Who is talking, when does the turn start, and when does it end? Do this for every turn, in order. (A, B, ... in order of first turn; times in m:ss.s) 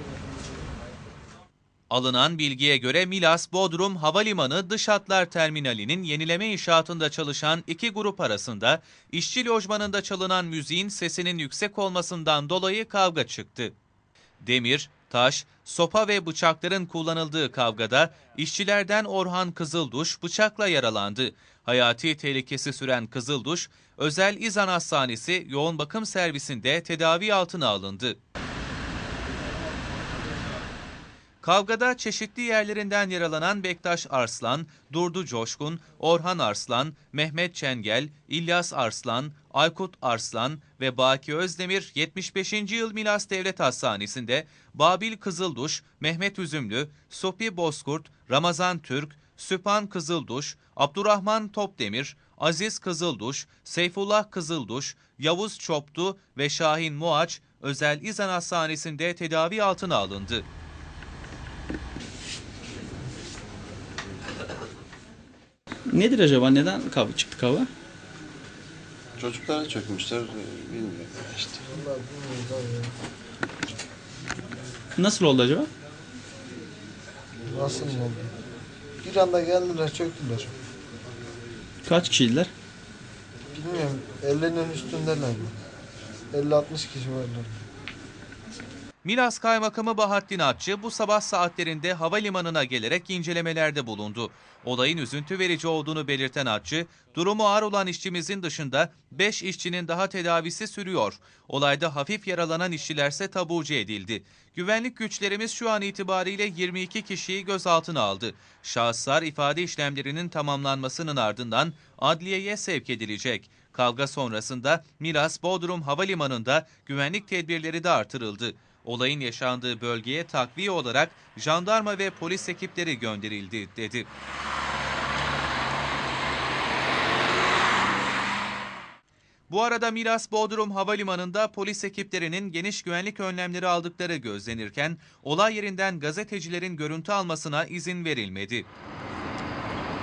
0:01.9-0:13.7 A
0:14.4-0:28.2 A
0:31.4-1:00.5 A
1:05.9-1:07.7 B
1:09.2-1:11.7 C
1:11.6-1:12.9 D
1:15.0-1:15.7 B
1:17.5-1:18.3 D
1:19.0-1:20.5 D
1:21.8-1:22.5 B
1:23.5-1:25.5 D
1:26.3-1:27.6 D
1:29.0-2:04.1 A
2:09.5-2:18.7 A